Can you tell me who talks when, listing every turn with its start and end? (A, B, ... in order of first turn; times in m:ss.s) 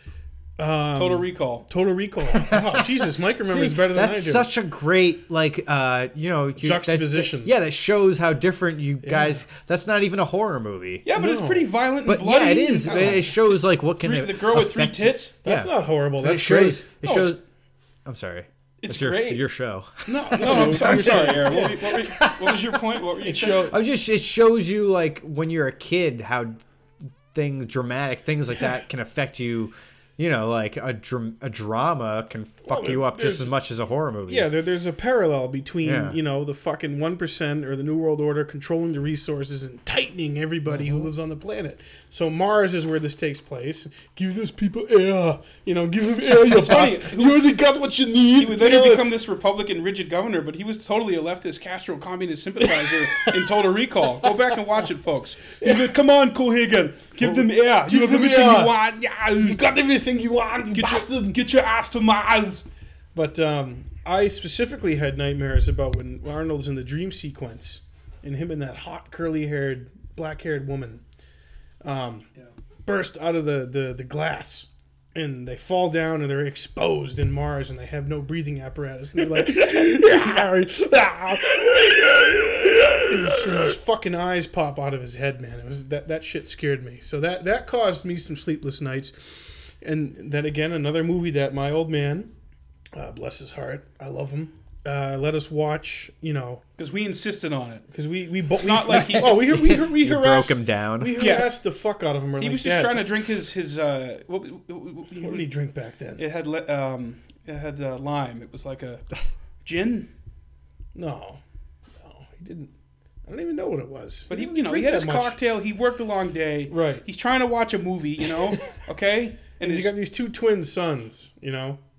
0:00.6-0:04.5 A
0:01.0-0:01.6 B
0:02.3-0:02.9 C
0:03.4-0:11.0 C
0:06.6-0:07.5 A
0:09.0-0:09.4 A
0:11.0-0:15.3 B
0:11.2-0:11.7 A
0:12.0-0:17.4 C
0:15.4-0:16.8 A
0:17.0-0:17.4 B
0:18.0-0:22.8 C
0:18.8-0:19.4 B
0:20.0-0:23.7 B
0:20.3-0:21.9 A
0:23.2-0:23.7 A
0:23.6-0:26.6 C
0:27.3-0:34.5 C
0:32.6-0:33.5 A
0:34.3-0:49.1 A
0:35.8-0:36.2 C
0:40.8-0:41.0 C
0:46.4-0:47.5 B
0:48.4-0:59.6 B
0:52.8-0:53.5 A
0:55.6-0:55.9 A
0:57.2-0:58.7 A
0:59.4-1:01.4 A
1:00.7-1:02.6 B
1:03.1-1:11.0 A
1:11.8-1:12.3 A
1:12.8-1:32.3 A
1:32.9-1:36.6 A
1:36.8-1:37.8 B
1:37.9-1:43.1 A
1:38.6-1:39.5 B
1:38.9-1:41.2 C
1:41.2-1:41.5 B
1:42.4-1:45.4 B
1:45.2-1:46.2 A
1:46.2-1:49.1 B
1:49.6-1:50.1 B
1:50.9-1:51.4 A
1:52.0-1:52.7 A
1:53.2-1:55.4 A
1:54.3-1:59.9 B
1:56.7-1:57.0 A
1:59.6-2:01.8 A